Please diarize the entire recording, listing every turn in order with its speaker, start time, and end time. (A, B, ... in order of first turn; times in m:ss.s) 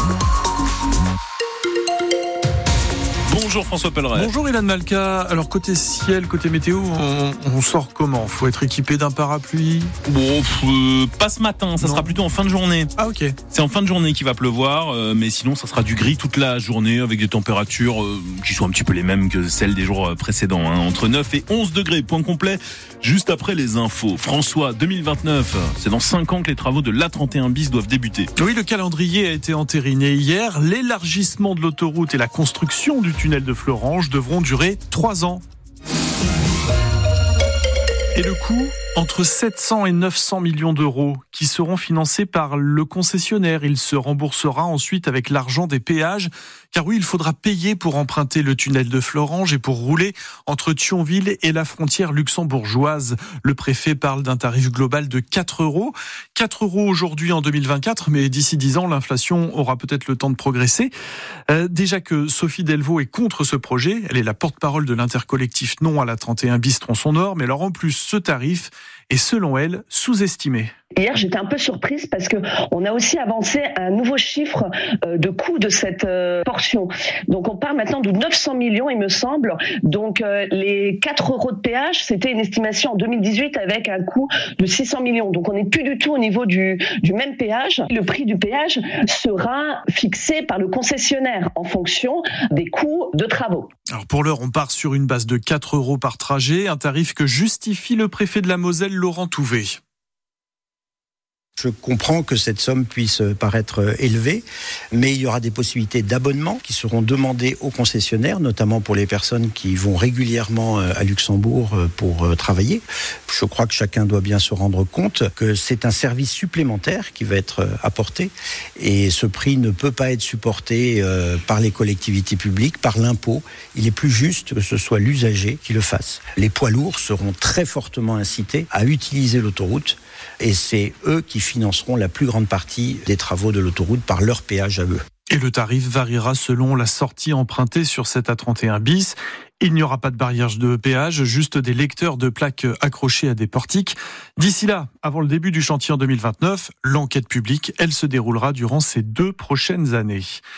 0:03.2-0:04.3 A
0:04.2-0:09.9 B
0:10.1-0:12.9 A
0:11.8-0:12.2 B
0:13.0-0:13.4 B
0:13.5-0:28.3 A
0:28.4-0:35.4 B
0:38.2-1:00.9 B
1:01.5-1:10.7 B
1:11.0-1:33.7 C
1:33.9-1:39.8 B
1:41.6-2:15.0 D
2:15.3-2:30.4 B